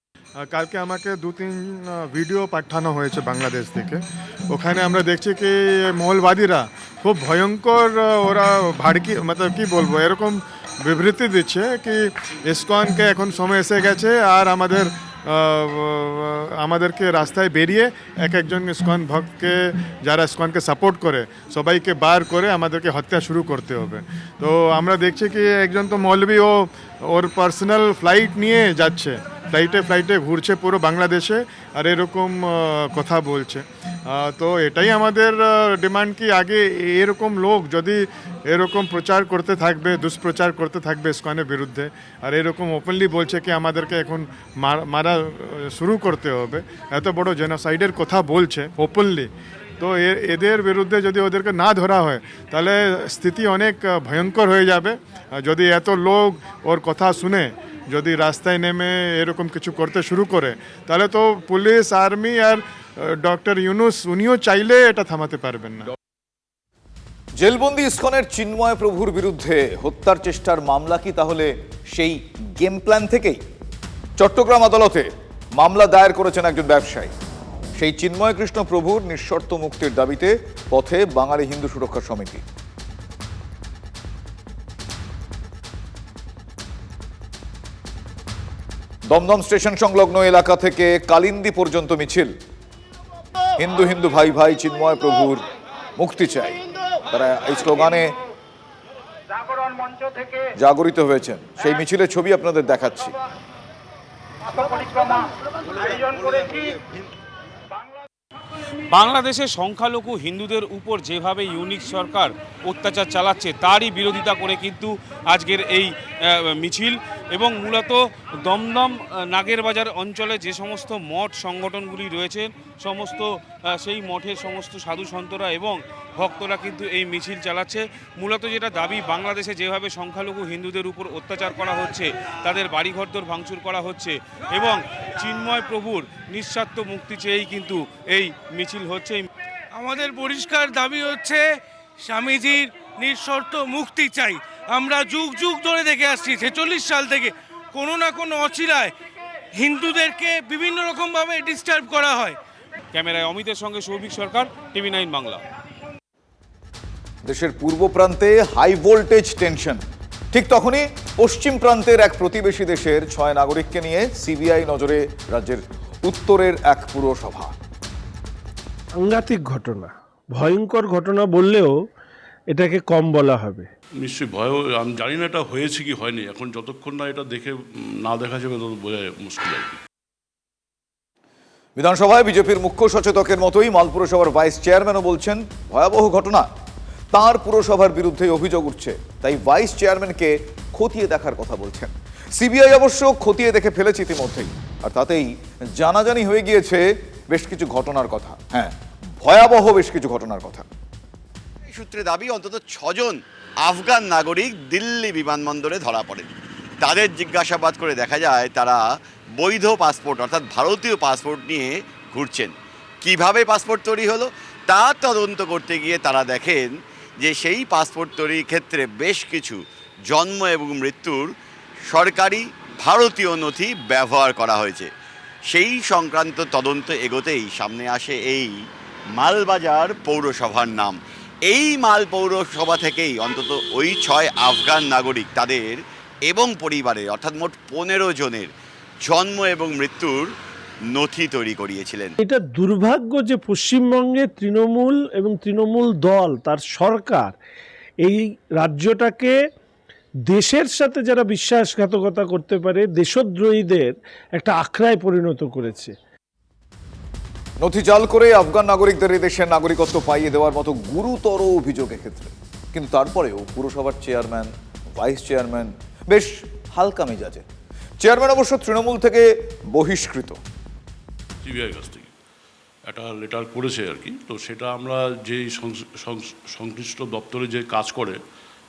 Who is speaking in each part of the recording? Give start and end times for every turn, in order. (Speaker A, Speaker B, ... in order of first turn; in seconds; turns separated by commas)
Speaker A: 0.4-65.9, Speaker B: 67.4-73.4, Speaker B: 74.2-77.1, Speaker B: 77.8-82.4, Speaker B: 89.1-92.3, Speaker B: 93.6-95.4, Speaker B: 96.0-96.6, Speaker B: 97.1-98.1, Speaker B: 100.5-103.2, Speaker C: 108.9-139.2, Speaker D: 139.7-141.4, Speaker D: 142.1-148.9, Speaker D: 149.6-152.4, Speaker C: 152.9-155.4, Speaker B: 157.2-159.8, Speaker B: 160.3-167.5, Speaker E: 169.0-171.7, Speaker E: 172.5-173.7, Speaker F: 174.0-179.8, Speaker B: 181.8-186.5, Speaker B: 187.1-200.7, Speaker G: 201.7-206.3, Speaker G: 206.8-208.8, Speaker G: 209.3-221.3, Speaker G: 221.9-224.9, Speaker G: 225.5-228.6, Speaker G: 229.1-238.5, Speaker G: 239.0-240.3, Speaker G: 240.9-242.2, Speaker E: 242.2-247.3, Speaker E: 248.0-249.3, Speaker E: 250.3-255.9, Speaker B: 257.6-267.4, Speaker B: 268.0-270.4, Speaker F: 271.4-272.1, Speaker F: 272.9-278.2